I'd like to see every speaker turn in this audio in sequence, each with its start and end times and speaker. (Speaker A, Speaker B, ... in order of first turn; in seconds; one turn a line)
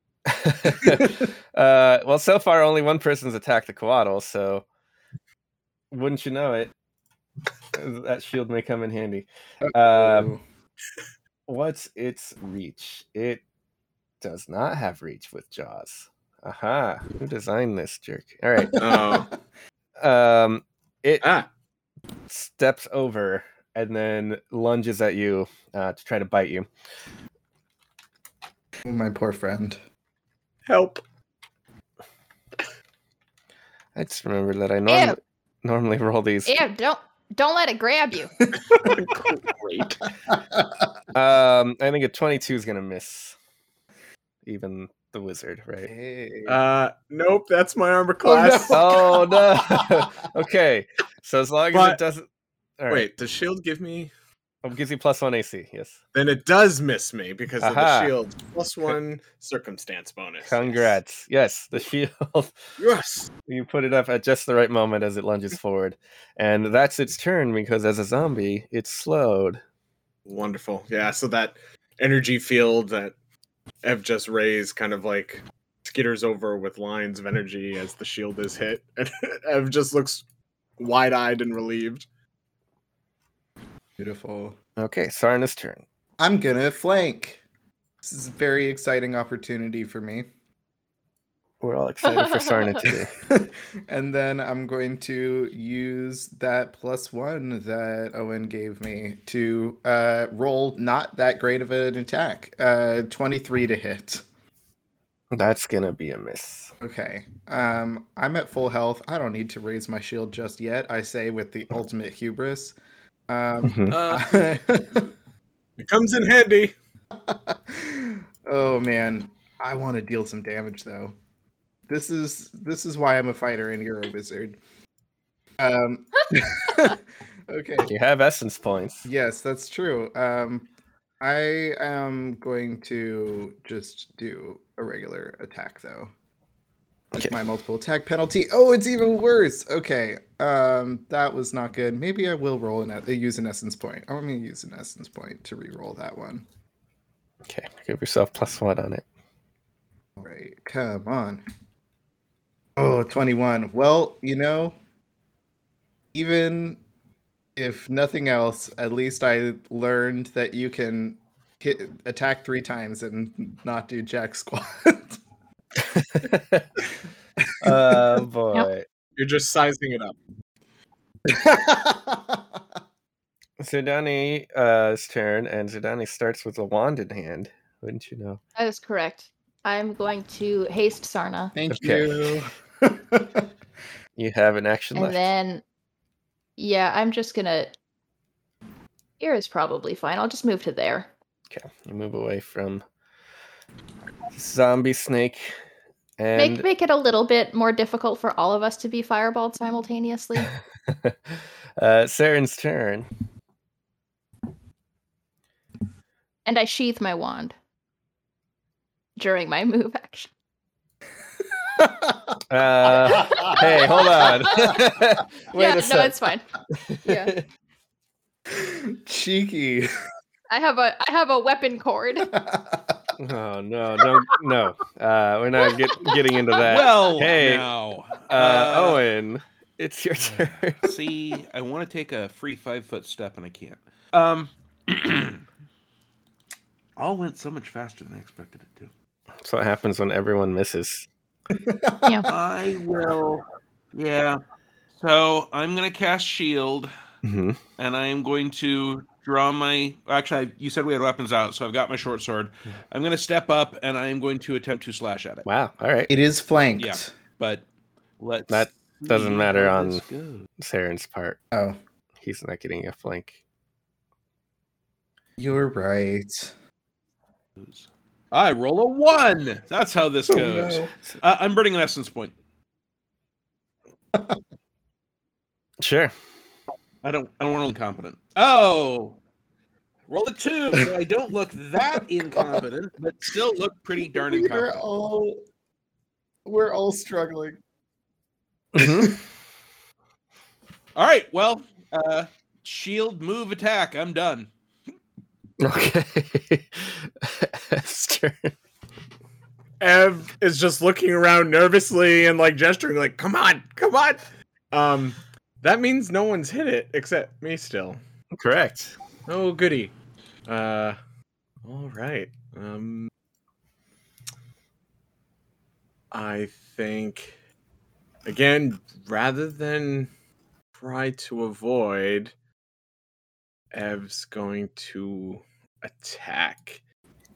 Speaker A: 0.2-4.6
Speaker A: 5.9-6.7
Speaker A: 7.7-10.3
Speaker B: 9.6-10.4
Speaker A: 11.5-13.4
Speaker A: 14.2-19.1
Speaker B: 18.6-19.3
Speaker C: 18.8-19.3
Speaker A: 20.0-21.3
Speaker C: 21.2-21.5
Speaker A: 22.3-26.7
Speaker B: 28.8-29.8
Speaker C: 30.7-31.0
Speaker A: 33.9-36.6
Speaker D: 34.9-35.2
Speaker D: 36.5-38.3
Speaker B: 38.4-38.9
Speaker C: 38.7-40.0
Speaker B: 40.3-40.8
Speaker A: 41.1-43.4
Speaker A: 44.4-45.9
Speaker B: 45.8-46.6
Speaker C: 46.5-48.9
Speaker B: 48.2-50.1
Speaker A: 48.7-52.2
Speaker C: 51.7-52.0
Speaker A: 52.8-53.1
Speaker C: 52.9-54.1
Speaker A: 54.6-56.0
Speaker C: 56.1-61.0
Speaker A: 57.6-58.1
Speaker A: 60.4-62.6
Speaker C: 62.8-63.3
Speaker A: 63.5-69.6
Speaker C: 70.2-73.1
Speaker C: 73.8-80.2
Speaker C: 80.8-82.0
Speaker B: 84.0-84.5
Speaker A: 84.8-85.8
Speaker B: 86.2-87.4
Speaker B: 88.0-90.3
Speaker A: 91.6-93.1
Speaker D: 92.1-92.7
Speaker B: 92.8-104.2
Speaker A: 105.3-106.7
Speaker B: 106.8-112.7
Speaker B: 113.3-115.1
Speaker A: 113.6-114.0
Speaker C: 113.9-114.3
Speaker C: 115.8-116.7
Speaker B: 117.2-121.1
Speaker B: 121.9-124.6
Speaker B: 125.6-127.9
Speaker A: 127.8-129.1
Speaker B: 129.1-130.7
Speaker B: 131.2-136.1
Speaker B: 137.1-146.4
Speaker A: 147.4-149.0
Speaker B: 150.2-151.4
Speaker B: 152.8-154.8
Speaker B: 156.1-156.8
Speaker B: 157.6-165.2
Speaker A: 165.8-166.8
Speaker A: 167.6-168.8
Speaker B: 167.6-168.1
Speaker C: 169.2-170.2
Speaker B: 171.2-172.4
Speaker A: 173.6-178.4
Speaker D: 178.6-181.5
Speaker B: 181.5-183.4
Speaker A: 181.7-182.3
Speaker A: 184.2-185.3
Speaker D: 184.9-185.6
Speaker D: 186.6-187.8
Speaker D: 189.2-191.1
Speaker A: 191.5-192.8
Speaker A: 194.3-195.5
Speaker A: 196.2-196.7
Speaker D: 196.3-200.5
Speaker A: 200.9-203.1
Speaker D: 206.4-207.5
Speaker D: 209.2-210.3
Speaker B: 211.6-214.8
Speaker A: 212.5-216.2
Speaker D: 213.0-214.8
Speaker D: 215.5-216.4
Speaker A: 216.7-217.4
Speaker D: 217.0-217.3
Speaker B: 218.5-219.9
Speaker D: 220.5-222.3
Speaker B: 222.3-223.0
Speaker A: 223.2-227.7
Speaker D: 226.0-226.4
Speaker E: 226.6-229.0
Speaker A: 228.3-230.9
Speaker E: 230.3-235.4
Speaker E: 237.0-238.9
Speaker A: 239.4-241.1
Speaker B: 241.6-242.2
Speaker D: 242.0-242.3
Speaker E: 242.3-244.4
Speaker E: 245.0-246.9
Speaker A: 247.2-247.6
Speaker E: 247.8-255.4
Speaker A: 255.4-256.1
Speaker B: 256.1-257.1
Speaker E: 256.8-257.6
Speaker E: 258.2-260.5
Speaker A: 258.5-260.0
Speaker A: 260.6-261.4
Speaker B: 261.5-261.8
Speaker A: 262.2-263.4
Speaker B: 265.4-266.5
Speaker E: 267.6-272.3
Speaker B: 270.3-270.9
Speaker A: 275.8-276.1
Speaker E: 277.0-279.2
Speaker E: 280.1-284.8
Speaker B: 282.3-282.6
Speaker B: 284.1-285.4
Speaker B: 286.4-287.6
Speaker A: 288.7-289.2
Speaker B: 288.8-289.2
Speaker E: 290.9-294.5
Speaker A: 295.6-298.6
Speaker C: 299.8-308.0
Speaker A: 308.3-308.9
Speaker C: 309.3-309.9
Speaker C: 310.5-311.0
Speaker C: 311.6-313.1
Speaker C: 316.1-317.4
Speaker C: 318.2-320.1
Speaker C: 320.8-322.3
Speaker C: 323.7-326.8